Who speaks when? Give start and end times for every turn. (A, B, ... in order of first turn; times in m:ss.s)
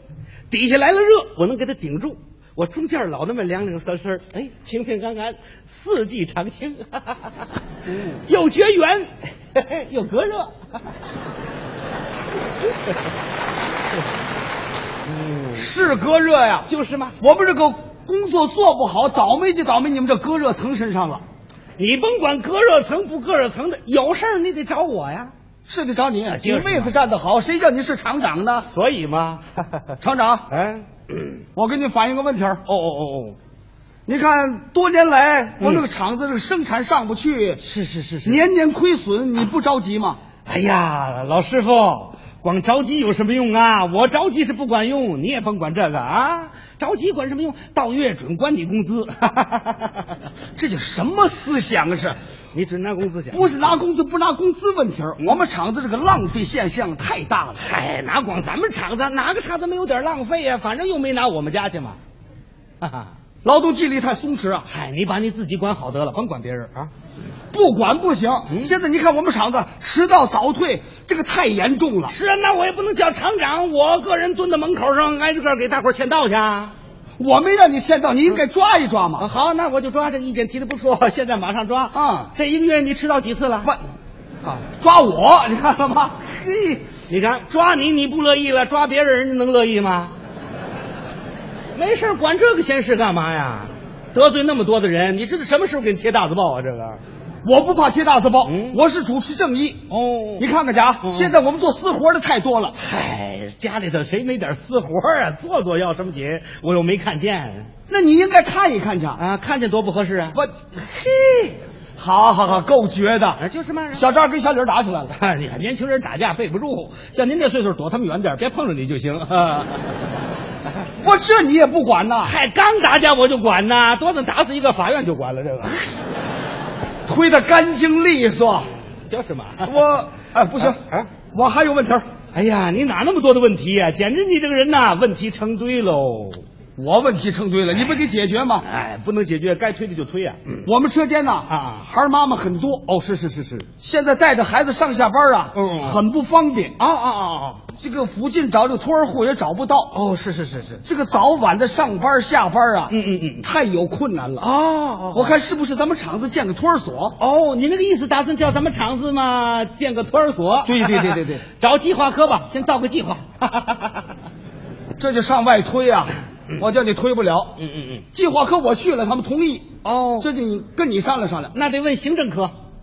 0:00.5-0:07.3 A
0:07.9-0:08.2 B
0:08.2-0:10.5 A
0:15.0-0:15.9 A
0:15.6-0:16.7 B
0:16.7-0:17.2 A
0:17.2-0:21.2 B
0:21.8-0:25.3 A
0:25.7-0:28.7 B
0:26.3-0:26.9 A
0:28.6-0:29.9 A
0:30.0-0:30.5 B
0:30.5-0:31.4 A
0:31.6-0:32.6 B
0:32.7-0:33.4 A
0:34.1-0:37.6 B
0:35.6-0:35.9 A
0:37.6-0:38.4 A
0:38.2-0:40.2 B
0:40.5-0:50.2 A
0:50.6-0:52.2 B
0:52.5-0:53.5 A
0:53.3-0:57.7 B
0:57.6-1:02.0 A
1:02.8-1:03.1 A
1:03.4-1:04.7 B
1:04.7-1:06.9 A
1:07.5-1:12.2 B
1:12.1-1:16.7 A
1:17.2-1:19.3 B
1:19.2-1:23.7 A
1:21.9-1:22.3 B
1:24.4-1:26.8 B
1:27.1-1:30.1 A
1:31.8-1:37.0 A
1:37.4-1:39.8 B
1:38.4-1:38.8 A
1:39.9-1:40.5 A
1:40.4-1:42.8 B
1:41.0-1:41.3 A
1:42.8-1:47.7 A
1:47.9-1:49.2 B
1:49.2-1:51.6 A
1:52.0-1:53.4 B
1:53.4-1:54.1 A
1:53.9-1:55.2 B
1:55.1-1:59.8 A
2:01.0-2:02.3 B
2:02.2-2:05.8 A
2:07.1-2:08.7 B
2:09.1-2:09.8 A
2:09.6-2:10.8 B
2:10.7-2:11.1 A
2:11.3-2:12.0 B
2:12.3-2:16.4 A
2:16.8-2:18.7 B
2:18.6-2:20.7 A
2:20.6-2:22.8 B
2:21.5-2:21.9 A
2:22.9-2:23.7 A
2:23.8-2:26.8 B
2:25.5-2:26.0 A
2:26.8-2:27.6 A
2:27.8-2:30.0 B
2:29.9-2:30.8 A
2:30.8-2:34.5 B
2:32.9-2:33.5 A
2:34.4-2:35.4 A
2:35.1-2:37.2 B
2:37.2-2:44.1 A
2:40.6-2:41.4 B
2:45.0-2:47.6 B
2:47.6-2:48.0 A
2:48.1-2:51.6 B
2:49.8-2:50.3 A
2:51.5-2:52.5 A